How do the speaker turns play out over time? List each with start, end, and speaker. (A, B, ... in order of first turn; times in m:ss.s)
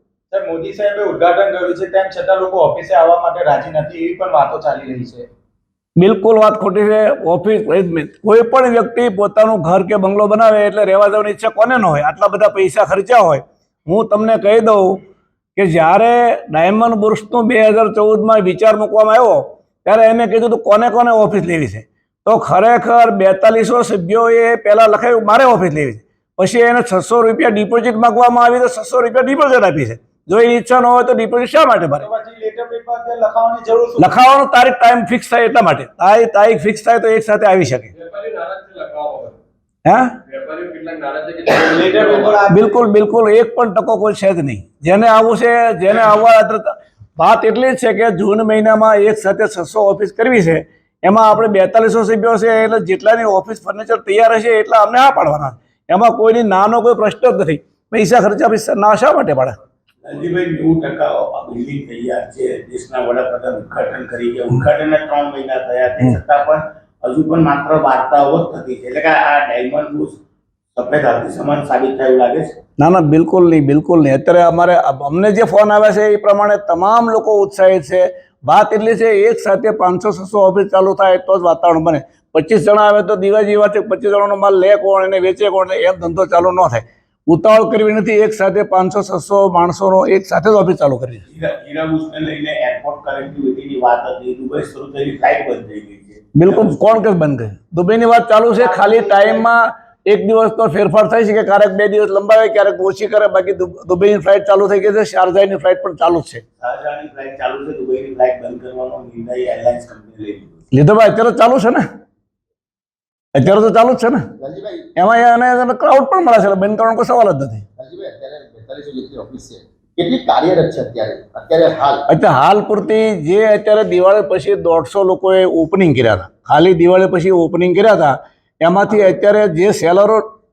0:00.3-0:05.3 A
0:06.0-0:15.0 B
0:15.6-0:32.1 B
0:32.0-0:34.1 A
0:34.0-0:37.9 B
0:37.9-0:39.4 C
0:39.8-0:40.2 B
0:40.3-0:42.4 C
0:41.5-0:42.8 A
0:42.5-0:59.6 B
1:00.0-1:10.2 D
1:10.7-1:12.6 D
1:12.8-1:31.2 B
1:31.3-1:37.0 D
1:36.4-1:46.4 B
1:38.6-1:39.5 D
1:46.6-1:50.7 D
1:50.7-1:51.8 B
1:53.4-1:54.2 B
1:54.4-1:54.9 E
1:55.0-1:57.6 B
1:57.8-2:02.0 E
2:02.1-2:10.2 B